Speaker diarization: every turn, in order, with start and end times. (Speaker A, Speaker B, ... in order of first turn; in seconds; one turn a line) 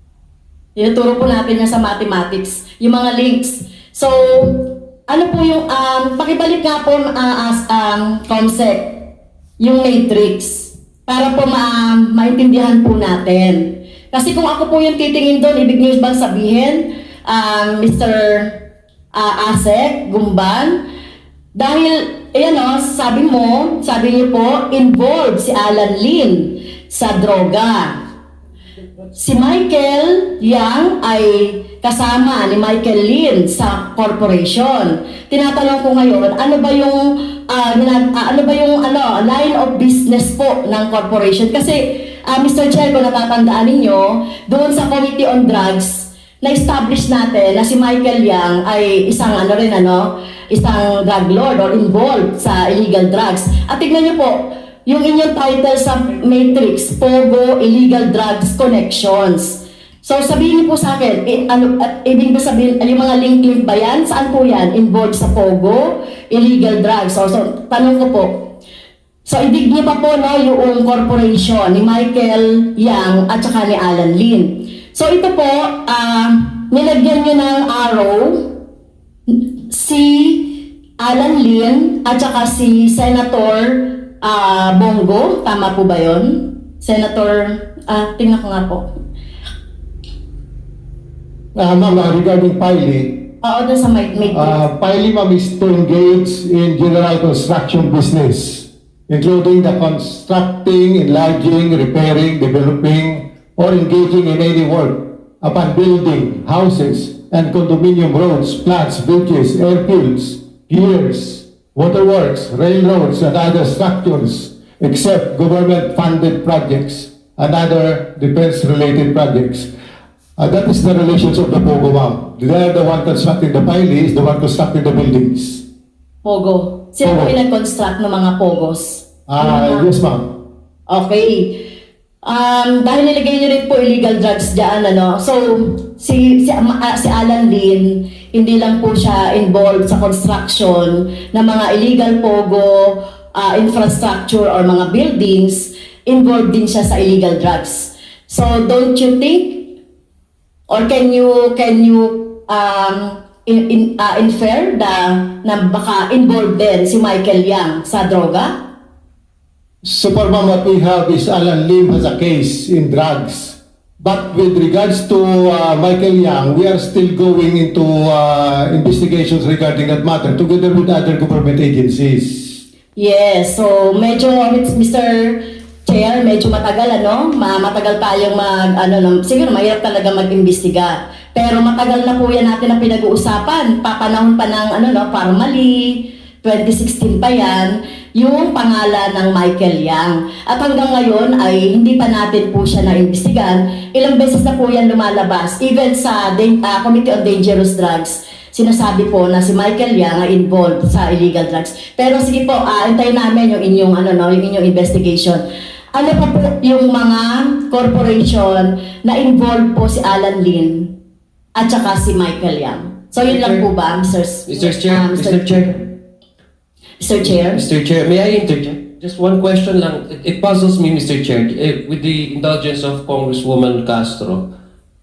Speaker A: 0.8-9.1
Speaker A: 9.6-18.6
Speaker A: 19.1-20.8
Speaker A: 21.5-28.0
Speaker A: 29.1-68.5
Speaker A: 69.2-78.6
Speaker A: 79.3-88.8
Speaker B: 91.5-93.3
Speaker A: 93.4-94.6
Speaker B: 94.3-119.7
Speaker B: 120.4-125.6
Speaker A: 126.2-129.9
Speaker B: 127.0-127.3
Speaker B: 129.3-130.4
Speaker A: 130.9-131.6
Speaker A: 132.2-149.7
Speaker A: 150.7-158.6
Speaker B: 159.8-172.6
Speaker A: 172.9-210.9
Speaker A: 211.6-215.8
Speaker C: 213.3-213.6
Speaker C: 214.5-215.9
Speaker A: 217.0-217.6
Speaker C: 217.2-224.5